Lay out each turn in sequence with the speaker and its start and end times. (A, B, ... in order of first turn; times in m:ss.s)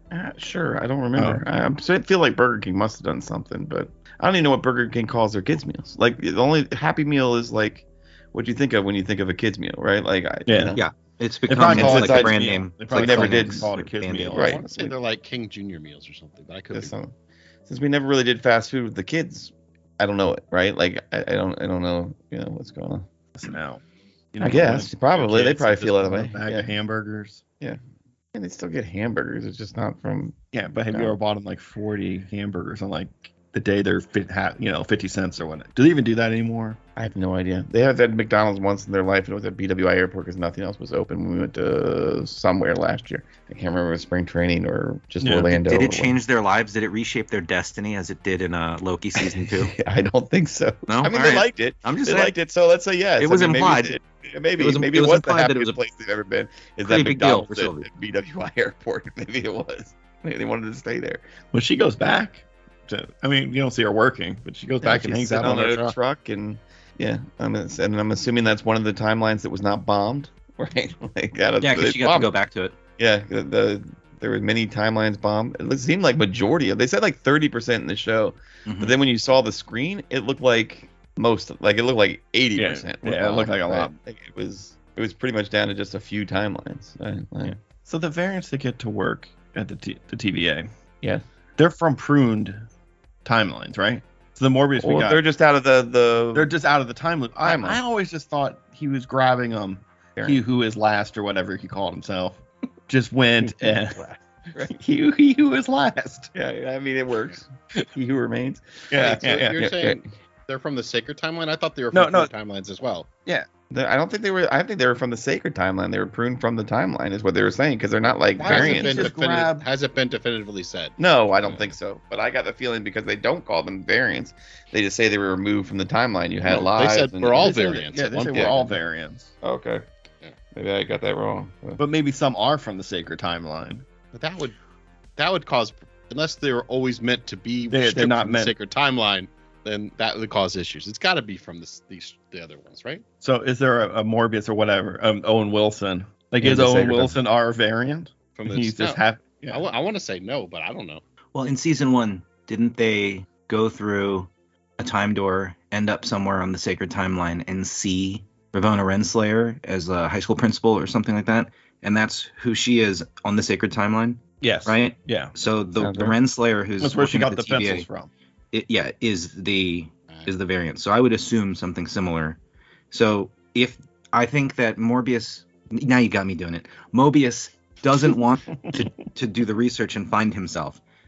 0:00.1-0:10.8 A
0:01.2-0:01.4 B
0:10.5-0:10.8 B
0:10.8-0:14.4 C
0:11.5-0:15.0 B
0:11.6-0:13.8 A
0:14.3-0:14.6 A
0:14.6-0:16.9 D
0:16.7-0:17.1 A
0:17.7-0:23.1 A
0:23.4-0:23.8 B
0:24.3-0:27.4 B
0:24.4-0:26.7 A
0:28.3-0:30.4 A
0:30.5-0:36.8 B
0:37.0-0:46.2 A
0:45.2-0:45.5 B
0:45.5-0:49.7 C
0:49.2-1:01.2 A
0:50.9-0:52.3 C
0:53.2-0:54.0 C
0:54.6-0:55.8 C
0:56.8-0:57.9 C
1:01.5-1:06.0 B
1:04.8-1:12.3 A
1:11.6-1:12.8 C
1:13.0-1:27.6 A
1:18.7-1:19.0 C
1:22.6-1:23.9 B
1:27.8-1:30.7 B
1:31.6-1:32.6 B
1:33.2-1:35.2 B
1:34.8-1:36.5 A
1:36.3-1:44.1 B
1:37.4-1:37.8 A
1:43.4-1:44.7 A
1:44.6-1:46.3 B
1:46.3-1:50.0 A
1:48.9-1:49.6 B
1:49.0-1:53.1 D
1:51.9-1:52.3 B
1:53.7-1:59.1 A
1:58.4-2:01.8 D
1:58.4-1:59.6 B
2:01.0-2:07.6 A
2:06.5-2:08.6 D
2:07.4-2:09.3 B
2:08.3-2:08.6 A
2:09.4-2:09.8 A
2:10.6-2:11.8 A
2:11.8-2:13.8 B
2:14.1-2:14.6 D
2:15.2-2:23.0 D
2:17.7-2:18.6 B
2:23.2-2:29.6 B
2:26.4-2:27.2 A
2:28.4-2:31.0 D
2:31.4-2:47.9 C
2:44.4-2:45.4 B
2:45.8-2:46.2 A
2:46.8-2:48.1 B
2:48.5-2:52.4 C
2:52.9-3:00.8 C